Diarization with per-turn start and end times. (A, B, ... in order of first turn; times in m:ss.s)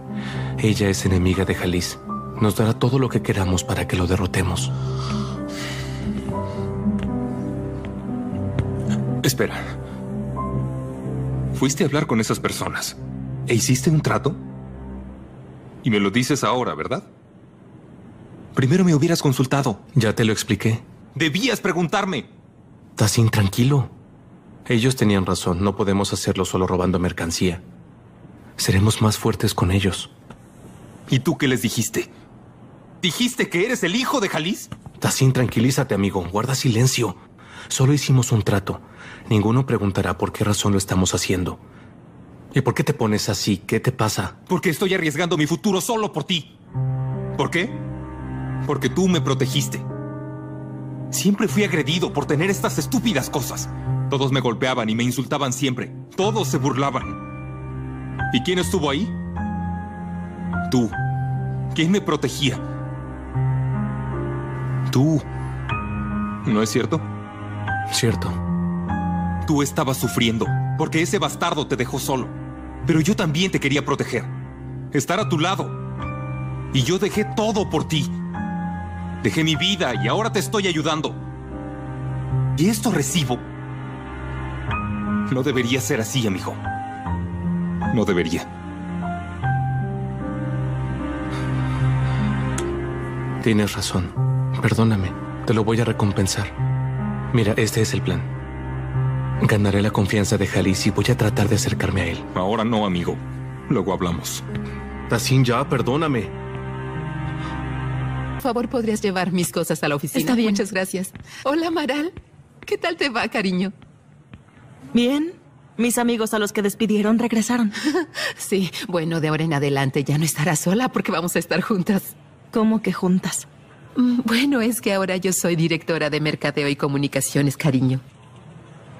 0:00.6-0:04.7 A
0:09.2-0:09.6 B
0:11.5-0:14.4 B
0:15.8-0:17.1 B
0:18.5-0:19.8 B
0:19.9-0:20.8 A
0:21.1-0:22.3 B
0:23.0-0:23.9 A
0:24.7-0:27.6 A
0:28.6-0:30.1 A
0:31.1-0:32.1 B
0:33.0-0:34.7 B
0:35.0-0:37.2 A
0:37.7-0:41.6 A
0:42.5-0:44.4 A
0:44.5-0:46.5 B
0:47.4-0:47.8 B
0:48.6-0:49.8 B
0:51.1-0:57.2 B
0:58.3-0:59.1 B
1:00.7-1:00.9 B
1:01.7-1:02.6 B
1:04.9-1:05.2 B
1:06.4-1:07.0 B
1:07.9-1:08.4 A
1:09.4-1:12.3 B
1:12.8-1:14.3 B
1:14.9-1:15.8 B
1:16.7-1:18.1 B
1:19.2-1:21.2 B
1:22.6-1:23.4 B
1:25.3-1:26.6 B
1:27.9-1:28.5 B
1:33.4-1:36.5 A
1:37.3-1:38.2 A
1:39.4-1:42.2 A
1:42.3-1:44.4 B
1:45.1-1:46.3 A
1:48.4-1:52.1 C
1:52.6-1:53.7 C
1:54.9-1:57.7 D
1:58.0-2:02.1 C
2:02.5-2:03.5 D
2:04.0-2:08.0 C